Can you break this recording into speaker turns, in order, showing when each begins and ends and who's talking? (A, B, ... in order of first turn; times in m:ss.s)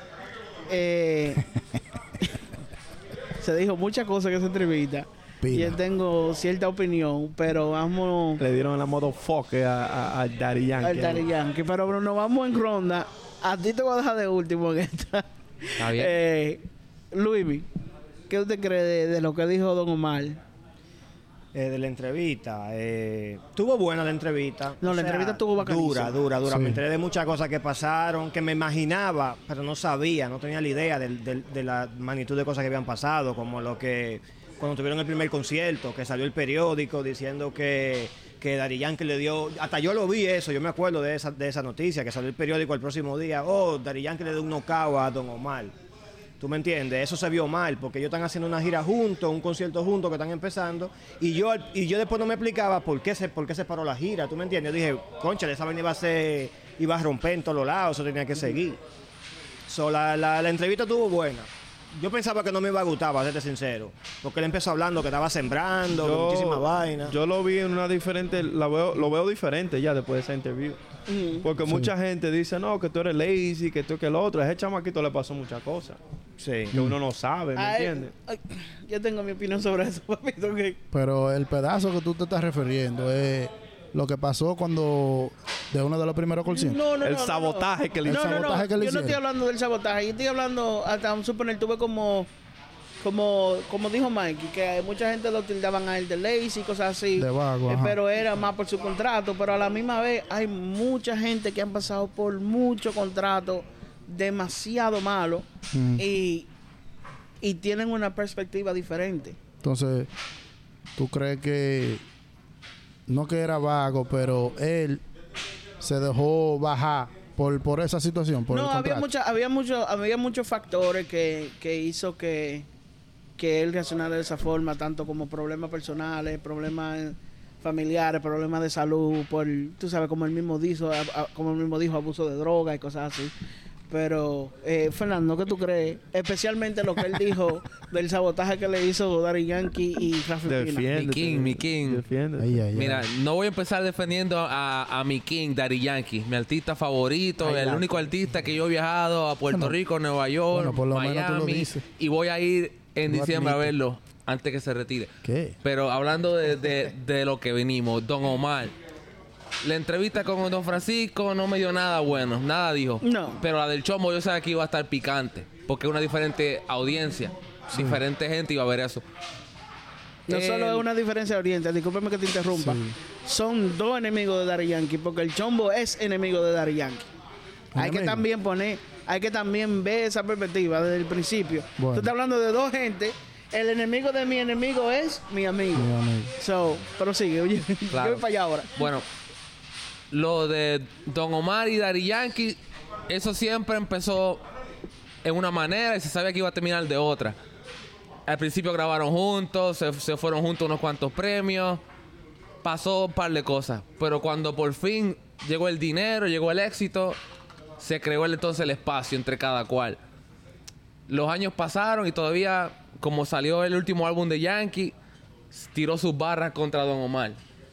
0:00.7-0:01.4 A
0:03.4-0:08.4 A
0:05.4-0:05.8 B
0:08.4-0:11.2 C
0:10.8-0:17.7 A
0:15.8-0:16.1 D
0:18.3-0:20.4 A
0:21.5-0:45.7 E
0:24.8-0:26.2 A
0:26.4-0:26.8 B
0:46.4-0:58.8 E
0:59.7-1:07.1 E
1:06.0-1:10.8 C
1:11.1-1:11.4 A
1:11.4-1:16.0 C
1:11.6-1:11.9 B
1:16.4-1:16.7 E
1:16.7-1:18.1 C
1:17.6-1:20.8 A
1:20.9-1:26.8 B
1:26.5-1:32.3 A
1:27.0-1:28.6 C
1:28.0-1:29.2 B
1:33.0-1:45.4 A
1:37.2-1:38.0 B
1:45.7-1:46.0 B
1:46.0-1:46.5 A
1:47.4-1:49.4 A
1:49.6-1:50.1 B
1:51.0-1:52.0 B
1:53.1-1:55.0 B
1:55.8-1:59.1 B
1:58.5-2:02.7 A
2:03.4-2:13.3 A
2:13.9-2:20.8 A
2:20.4-2:22.6 C
2:20.9-2:22.0 D
2:22.4-2:23.1 B
2:22.7-2:35.1 D
2:29.5-2:29.8 B
2:30.5-2:31.8 B
2:33.1-2:33.7 B
2:35.2-2:35.6 B
2:35.6-2:38.7 D
2:39.6-2:49.0 D
2:43.0-2:43.4 A
2:47.7-2:48.0 B
2:50.3-2:50.8 D
2:50.3-2:57.1 A
2:52.5-2:53.0 B
2:57.7-2:58.2 B
2:57.8-3:08.8 A
3:01.8-3:02.1 B
3:05.7-3:06.3 B
3:07.9-3:09.0 D
3:10.1-3:14.4 D
3:15.2-3:17.4 D
3:18.3-3:21.8 D
3:22.6-3:27.2 D
3:27.8-3:30.0 D
3:31.1-3:34.9 D
3:35.5-3:37.4 D